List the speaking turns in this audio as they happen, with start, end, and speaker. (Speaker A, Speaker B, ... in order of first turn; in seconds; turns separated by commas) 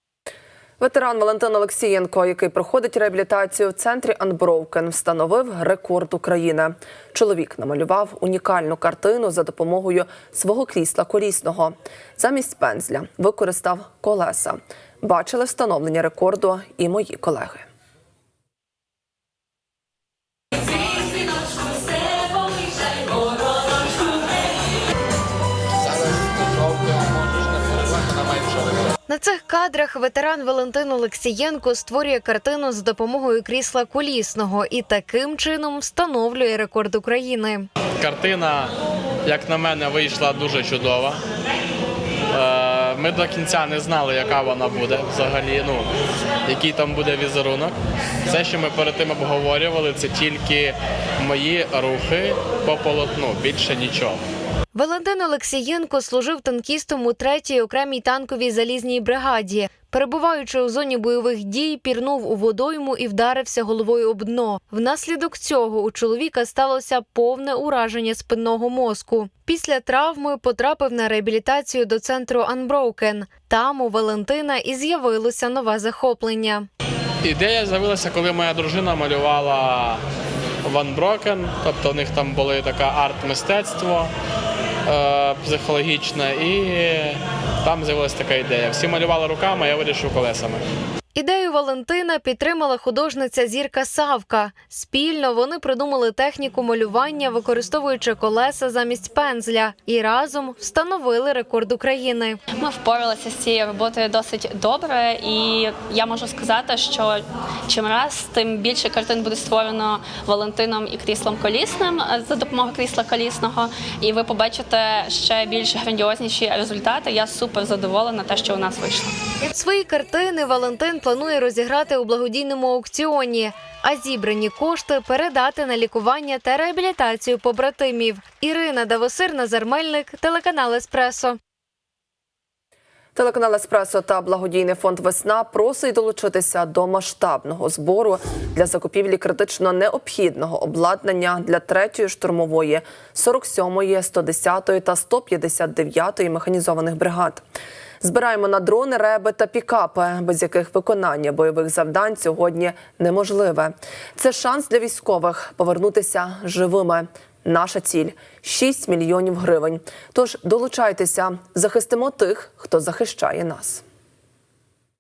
Speaker A: 0.8-17.7, Speaker B: 25.9-28.8, Speaker C: 29.1-37.7, Speaker B: 38.0-38.7, Speaker B: 39.2-41.2, Speaker B: 42.3-45.9, Speaker B: 46.5-47.8, Speaker B: 48.3-54.2, Speaker C: 54.8-76.7, Speaker B: 77.2-80.0, Speaker B: 80.6-84.1, Speaker B: 84.9-90.7, Speaker C: 91.2-102.4, Speaker D: 102.5-119.2, Speaker C: 119.5-131.4, Speaker A: 133.2-147.4, Speaker A: 148.0-163.8